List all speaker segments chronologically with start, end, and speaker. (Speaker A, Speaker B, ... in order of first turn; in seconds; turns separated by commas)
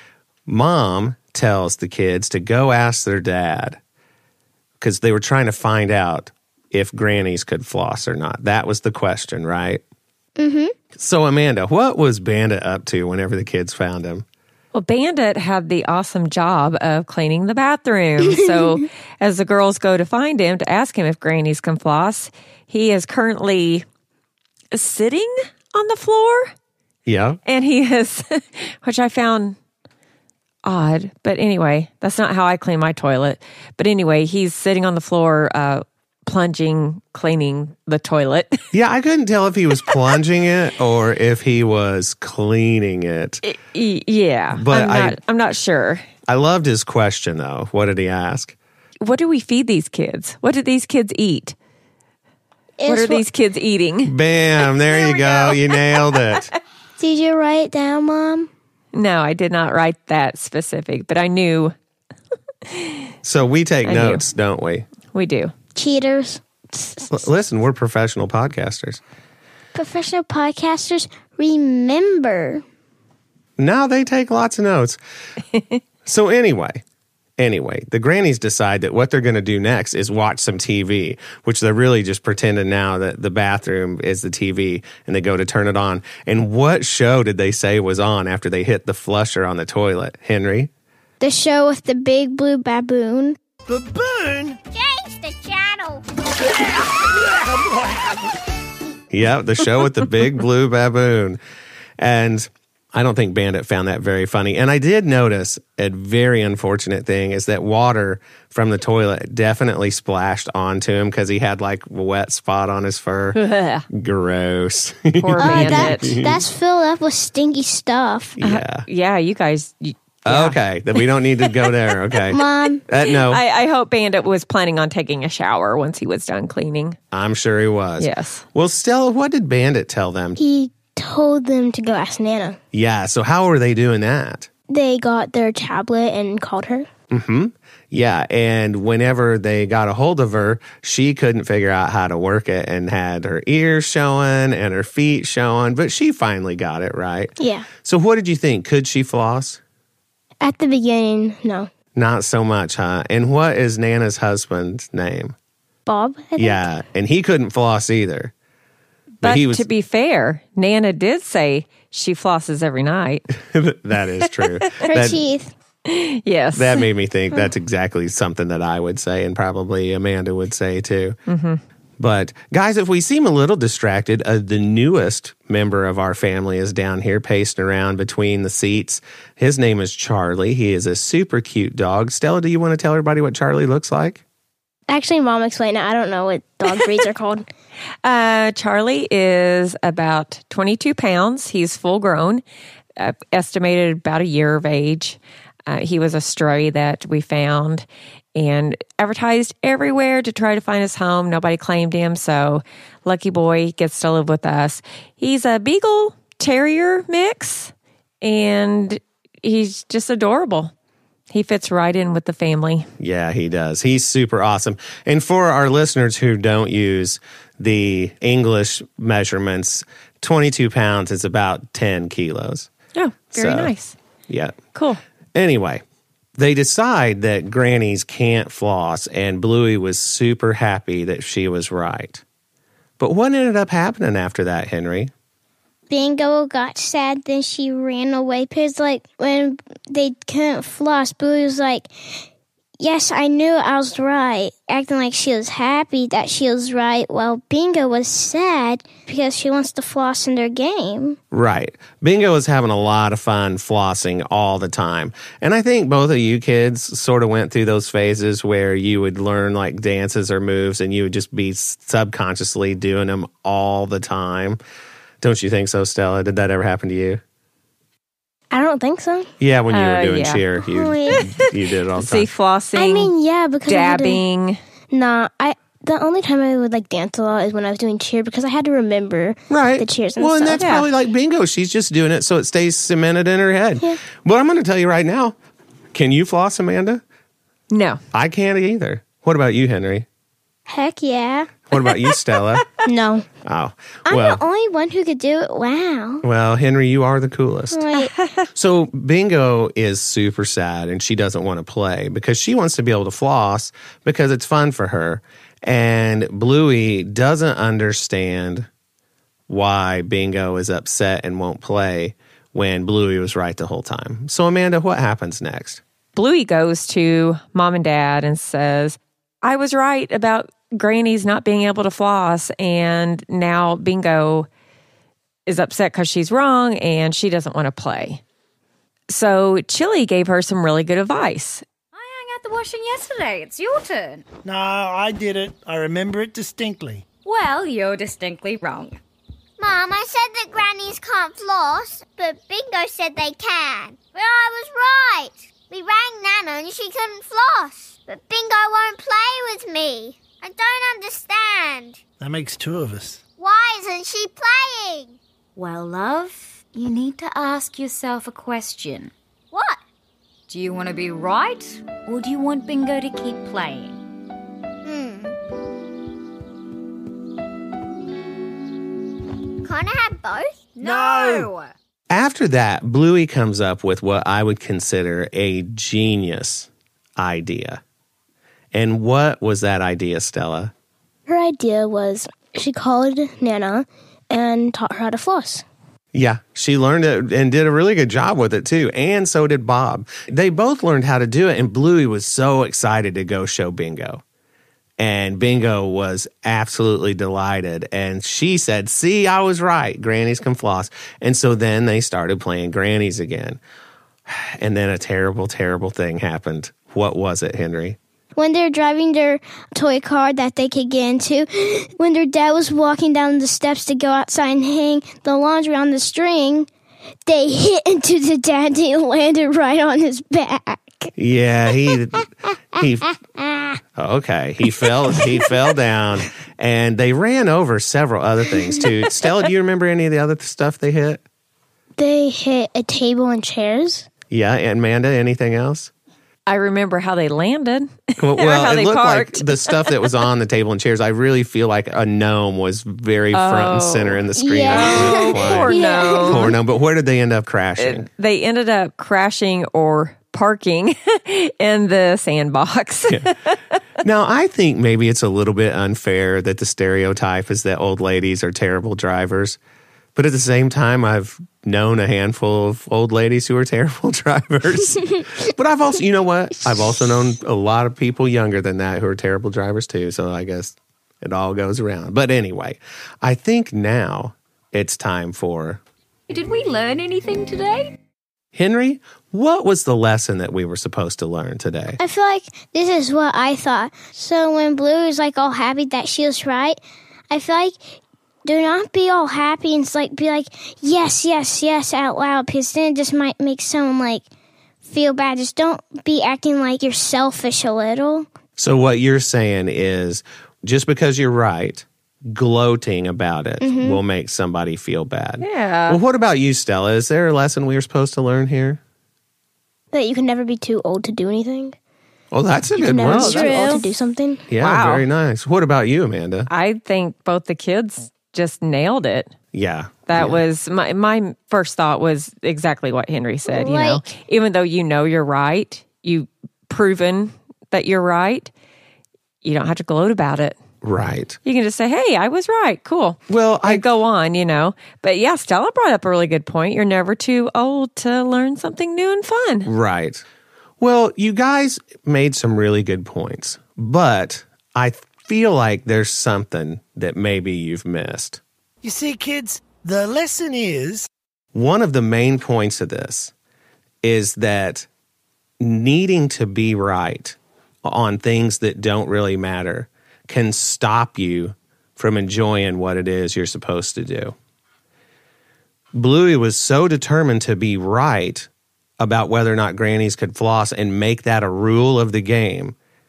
Speaker A: 0.5-3.8, Speaker A: 4.8-9.8, Speaker B: 10.4-10.7, Speaker A: 10.9-14.2, Speaker C: 14.7-23.8, Speaker B: 18.3-18.8, Speaker C: 24.7-26.5, Speaker A: 27.1-27.4, Speaker C: 27.4-29.6, Speaker C: 30.6-38.6, Speaker A: 38.7-43.4, Speaker C: 43.4-46.0, Speaker A: 44.5-45.2, Speaker A: 46.3-48.5, Speaker C: 49.0-51.5, Speaker B: 52.8-53.2, Speaker C: 52.9-54.1, Speaker A: 54.0-56.5, Speaker C: 54.8-56.2, Speaker B: 57.0-58.5, Speaker C: 58.9-61.7, Speaker C: 62.7-63.1, Speaker A: 63.2-64.9, Speaker C: 63.8-64.2, Speaker C: 65.1-65.5, Speaker B: 65.8-67.2, Speaker A: 67.1-69.0, Speaker B: 69.7-72.6, Speaker A: 73.6-75.0, Speaker A: 76.0-76.8, Speaker A: 77.4-90.7, Speaker B: 91.2-93.4, Speaker D: 93.7-94.6, Speaker E: 94.7-96.0, Speaker D: 97.3-98.2, Speaker A: 99.1-101.4, Speaker A: 102.0-113.4, Speaker C: 113.3-113.8, Speaker A: 113.9-116.4, Speaker C: 115.1-116.2, Speaker B: 115.4-118.4, Speaker A: 118.4-118.9, Speaker C: 118.4-122.1, Speaker A: 120.2-123.4, Speaker B: 122.3-122.8, Speaker C: 123.1-127.0, Speaker A: 127.1-130.4, Speaker C: 128.0-128.4, Speaker B: 130.4-132.6, Speaker A: 132.7-134.5, Speaker B: 134.7-136.9, Speaker A: 137.1-149.6, Speaker B: 147.4-147.7, Speaker B: 150.4-151.7, Speaker A: 151.9-155.3, Speaker B: 155.8-156.7, Speaker A: 156.4-158.3, Speaker C: 159.2-163.2, Speaker A: 159.2-159.7, Speaker A: 163.4-165.2, Speaker B: 164.8-165.5, Speaker C: 165.8-166.8, Speaker A: 166.5-171.2, Speaker C: 171.3-171.6, Speaker A: 172.0-184.2, Speaker B: 184.9-187.4, Speaker C: 188.0-192.4, Speaker C: 193.0-210.7, Speaker C: 211.3-212.9, Speaker A: 213.0-222.7, Speaker C: 222.9-223.9, Speaker A: 223.3-223.7, Speaker A: 224.3-224.6, Speaker C: 224.7-225.0, Speaker A: 225.3-225.8, Speaker A: 226.4-232.2, Speaker A: 233.0-235.1, Speaker B: 235.9-242.2, Speaker B: 242.8-251.2, Speaker A: 251.3-264.6, Speaker A: 265.2-267.2, Speaker B: 268.5-269.3, Speaker A: 269.4-272.3, Speaker C: 269.7-270.4, Speaker B: 270.6-271.2, Speaker C: 271.9-273.1, Speaker B: 272.7-274.2, Speaker C: 273.6-274.6, Speaker B: 274.9-280.6, Speaker A: 279.5-285.4, Speaker C: 280.6-280.9, Speaker A: 285.9-287.0, Speaker C: 287.7-288.0, Speaker A: 288.1-290.1, Speaker B: 290.7-291.5, Speaker A: 291.7-292.6, Speaker B: 292.8-293.3, Speaker A: 293.4-294.4, Speaker B: 294.1-296.2, Speaker A: 296.2-297.8, Speaker B: 297.7-298.1, Speaker C: 298.0-298.4, Speaker A: 298.5-308.7, Speaker A: 309.5-315.8, Speaker C: 316.1-324.5, Speaker C: 325.5-328.2, Speaker C: 329.1-331.6, Speaker F: 331.9-334.2, Speaker D: 334.4-337.0, Speaker F: 337.2-339.0, Speaker E: 339.6-352.0, Speaker D: 352.2-353.2, Speaker E: 353.4-355.2, Speaker F: 355.6-359.1, Speaker E: 359.5-359.8, Speaker F: 360.5-364.0, Speaker E: 364.8-365.3, Speaker E: 369.6-371.5, Speaker F: 370.8-371.7, Speaker D: 370.9-371.5, Speaker A: 372.1-377.8, Speaker A: 378.7-380.7, Speaker B: 381.3-385.6, Speaker A: 386.1-394.2, Speaker A: 395.0-403.6, Speaker A: 404.3-408.0, Speaker B: 408.4-416.7, Speaker B: 417.3-421.1, Speaker A: 421.2-423.1, Speaker A: 424.0-431.2, Speaker B: 432.0-434.1, Speaker A: 434.3-435.9, Speaker C: 436.5-440.1, Speaker A: 438.2-448.1, Speaker C: 443.3-446.5, Speaker B: 444.4-446.5, Speaker C: 447.8-453.6, Speaker A: 454.0-459.6, Speaker A: 460.1-475.8, Speaker F: 476.3-478.0, Speaker A: 478.5-482.0, Speaker B: 482.0-486.8, Speaker B: 487.3-494.2, Speaker B: 494.8-498.3, Speaker A: 498.6-508.8, Speaker B: 503.6-504.0, Speaker C: 505.4-506.0, Speaker B: 509.9-511.8, Speaker A: 512.3-513.8, Speaker B: 512.7-514.5, Speaker C: 513.0-513.9, Speaker A: 514.5-516.5, Speaker C: 514.6-515.1, Speaker C: 516.5-519.3, Speaker A: 519.5-520.4, Speaker C: 520.0-528.5, Speaker B: 523.5-524.0, Speaker C: 529.4-530.6, Speaker A: 530.8-531.4, Speaker C: 531.4-539.7, Speaker A: 533.3-533.9, Speaker A: 539.6-540.2, Speaker A: 540.8-548.4, Speaker D: 548.8-551.1, Speaker A: 551.5-553.3, Speaker A: 554.0-554.9, Speaker A: 555.6-564.3, Speaker A: 566.0-572.7